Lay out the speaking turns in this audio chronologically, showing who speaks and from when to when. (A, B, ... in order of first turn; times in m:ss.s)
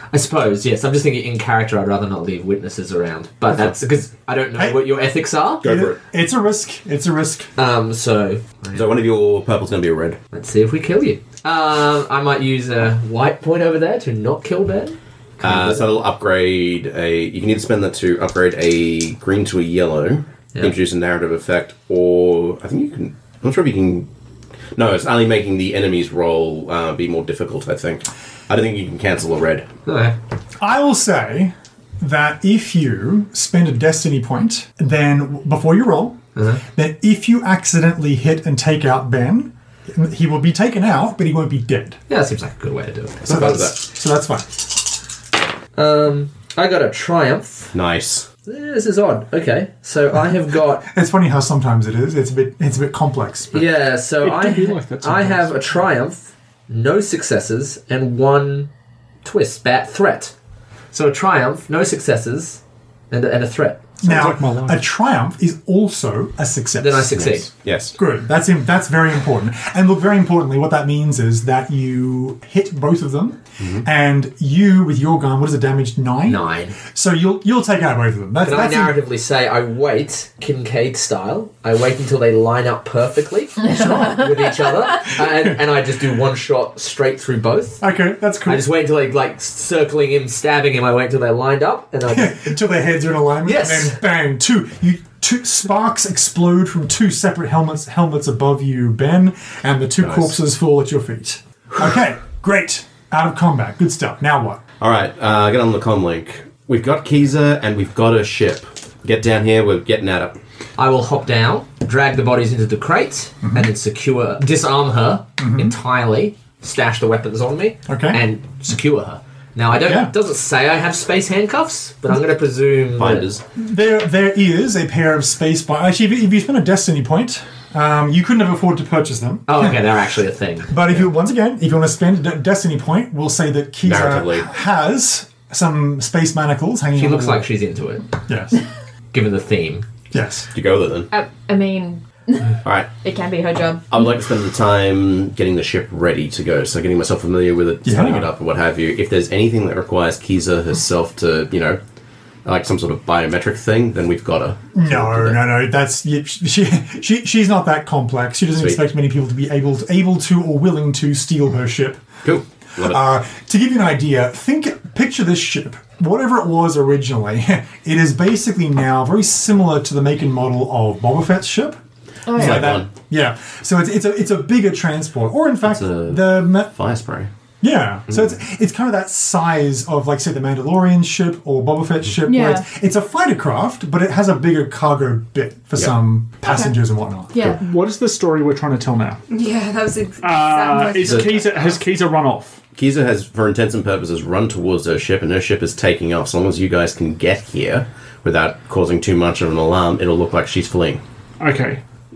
0:00.1-0:05.7 A
0:04.6-0:04.8 B
0:05.6-0:07.5 B
0:05.6-0:06.0 C
0:07.6-0:08.9 A
0:08.7-0:10.2 C
0:10.3-0:16.0 A
0:15.4-0:24.1 C
0:24.7-0:29.7 C
0:29.8-0:30.1 A
0:30.6-0:36.2 B
0:36.3-0:36.6 A
0:36.7-0:42.0 B
0:42.1-0:43.7 A
0:43.2-0:43.8 C
0:43.3-0:44.6 B
0:45.8-0:47.7 A
0:47.7-0:48.3 C
0:48.4-0:50.8 A
0:50.8-0:53.6 B
0:53.5-0:58.7 A
0:54.2-0:55.8 D
0:59.2-1:00.3 A
1:00.9-1:02.6 A
1:03.1-1:04.0 A
1:04.0-1:07.2 B
1:04.0-1:04.8 D
1:06.8-1:07.5 A
1:07.1-1:08.0 C
1:08.0-1:19.0 B
1:13.6-1:13.8 C
1:16.2-1:16.8 A
1:18.4-1:27.8 A
1:27.8-1:28.6 B
1:28.4-1:32.5 A
1:32.1-1:44.6 B
1:33.4-1:34.0 A
1:40.0-1:40.3 C
1:44.8-1:50.4 C
1:50.8-2:03.3 A
1:53.4-1:53.7 B
1:55.4-1:55.7 B
1:57.9-1:58.2 B
1:59.8-2:00.1 B
2:03.0-2:03.4 C
2:03.6-2:09.8 B
2:09.5-2:11.0 A
2:10.7-2:17.5 B
2:13.8-2:14.5 C
2:16.9-2:18.1 A
2:18.3-2:18.6 B
2:19.1-2:19.8 A
2:20.1-2:20.5 B
2:20.5-2:21.1 C
2:21.1-2:23.9 E
2:22.6-2:22.9 C
2:23.9-2:31.8 C
2:27.8-2:28.3 B
2:32.4-2:35.4 C
2:34.7-2:42.0 B
2:42.2-2:43.0 C
2:42.8-2:51.8 B
2:52.2-2:52.8 E
2:52.3-2:52.9 C
2:52.3-2:56.7 B
2:55.6-2:57.3 C
2:57.6-3:07.4 B
3:02.2-3:02.6 E
3:06.4-3:06.7 E
3:07.3-3:07.6 E
3:07.5-3:09.2 D
3:09.3-3:11.7 F
3:10.2-3:12.6 D
3:11.0-3:11.6 C
3:12.8-3:21.0 C
3:21.4-3:21.8 D